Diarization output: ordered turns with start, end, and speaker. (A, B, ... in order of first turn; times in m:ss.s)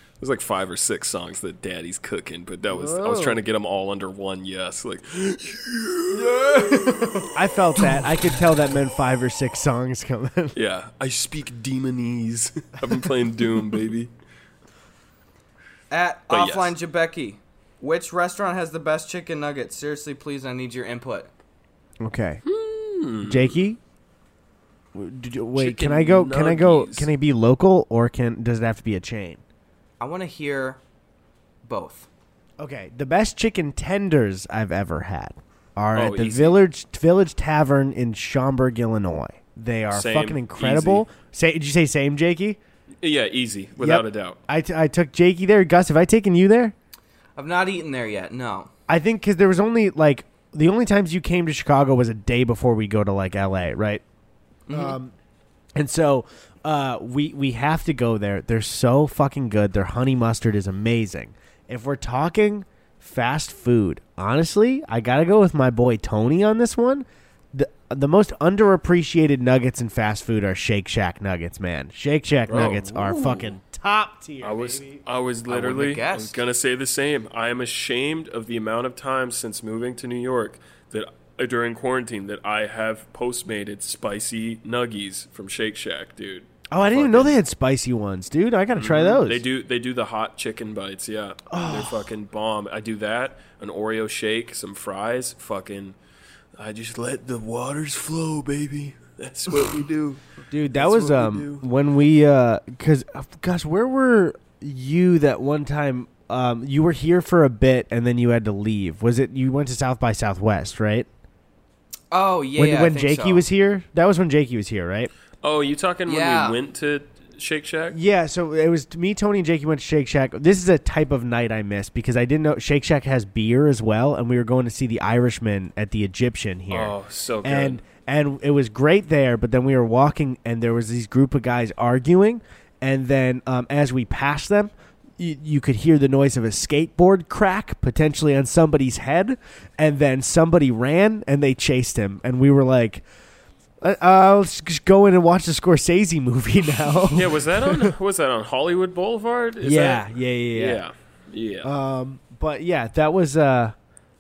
0:00.2-0:08.1 A
0:02.7-0:03.4 B
0:06.4-0:07.0 C
0:07.3-0:10.6 B
0:10.6-0:14.1 A
0:15.9-0:21.3 C
0:16.3-0:16.7 A
0:22.0-0:22.4 B
0:22.5-0:23.6 A
0:23.2-0:23.8 B
0:24.9-0:29.4 B
0:25.6-0:27.1 A
0:30.0-0:30.8 C
0:31.6-0:32.1 C
0:32.6-0:42.6 B
0:36.0-0:36.6 A
0:39.9-0:41.1 A
0:43.0-0:44.4 A
0:43.8-0:46.7 B
0:47.4-0:48.7 C
0:48.9-0:54.0 B
0:54.7-0:55.0 C
0:54.7-0:55.1 B
0:55.8-1:15.0 B
1:12.5-1:13.5 A
1:14.4-1:27.3 A
1:15.5-1:16.4 C
1:26.7-1:29.4 B
1:28.8-1:36.0 A
1:31.5-1:32.1 B
1:36.6-1:41.6 A
1:40.5-1:51.1 B
1:52.1-1:53.4 C
1:52.6-1:55.1 B
1:55.4-1:58.0 A
1:56.1-1:56.6 C
1:57.9-2:23.0 B
2:06.7-2:07.8 A
2:23.8-2:27.9 B
2:27.0-2:31.7 A
2:29.6-2:30.8 B
2:31.6-2:33.8 B